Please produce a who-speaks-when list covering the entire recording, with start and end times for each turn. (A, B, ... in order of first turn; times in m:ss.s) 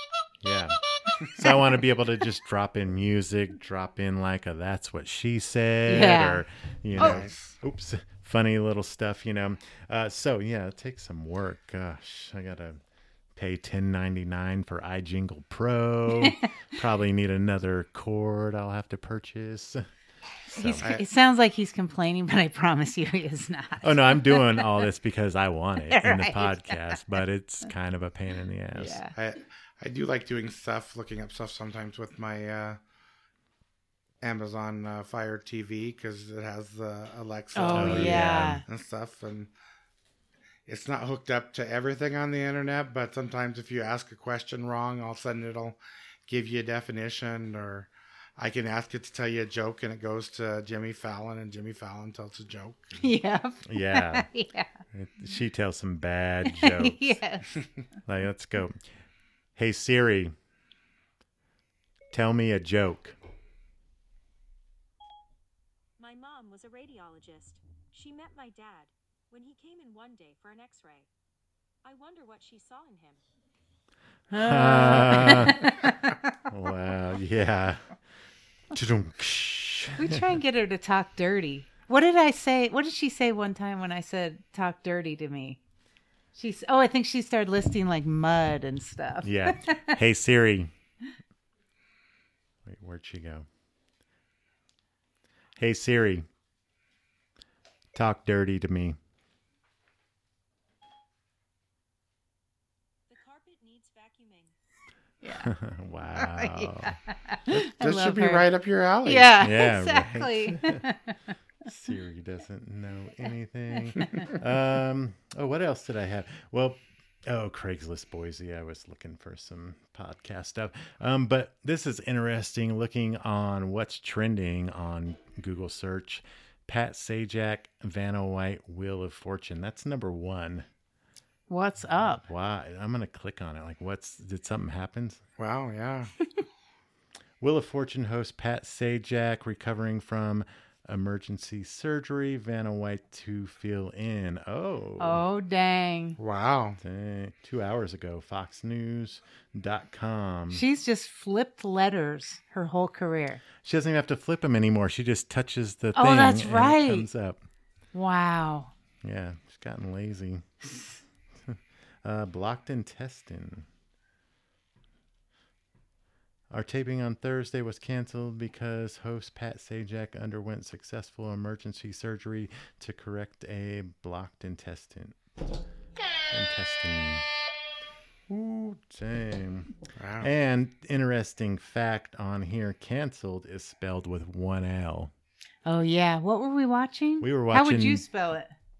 0:00.4-0:12.8 A
0:05.9-0:06.4 B
0:06.9-0:07.6 C
0:07.0-0:07.3 B
0:13.4-0:19.9 A
0:20.5-0:20.9 A
0:20.5-0:24.8 B
0:20.8-0:21.0 C
0:23.8-0:29.0 A
0:25.9-0:27.0 B
0:28.7-0:29.1 B
0:29.1-0:32.8 C
0:34.2-0:39.5 C
0:37.6-0:38.6 B
0:37.7-0:38.6 A
0:40.7-0:53.0 C
0:53.0-0:54.7 B
0:53.6-0:54.3 A
0:54.9-0:57.2 A
0:56.4-0:57.6 B
0:58.0-0:58.8 A
0:59.6-1:00.3 A
1:02.1-1:03.2 A
1:06.0-1:11.1 D
1:11.8-1:13.2 D
1:14.3-1:16.3 B
1:14.3-1:15.7 A
1:16.5-1:17.8 A
1:18.7-1:20.3 A
1:20.0-1:25.6 B
1:26.3-1:30.0 B
1:29.2-1:30.7 A
1:32.6-1:33.4 A
1:35.6-1:36.3 A
1:37.9-1:39.0 A
1:43.1-1:44.5 D
1:45.2-1:45.5 B
1:45.4-1:47.0 A
1:46.1-1:48.5 B
1:47.6-1:49.4 C
1:49.0-1:51.3 B
1:49.4-1:50.8 A
1:51.6-2:10.6 A
1:53.9-1:54.3 B
2:11.5-2:12.2 B
2:12.0-2:15.2 A
2:15.4-2:16.1 C
2:17.4-2:25.2 A
2:25.0-2:26.2 B
2:26.2-2:26.8 C
2:26.8-2:30.6 A
2:30.5-2:33.4 B
2:33.6-2:37.4 A
2:35.9-2:37.1 B
2:37.9-2:38.7 B
2:39.0-2:40.4 A
2:41.4-2:43.7 A
2:46.5-2:55.2 A
2:56.3-2:57.2 A
2:58.3-3:05.1 A
3:00.0-3:00.3 C
3:05.6-3:08.5 B
3:07.2-3:08.0 A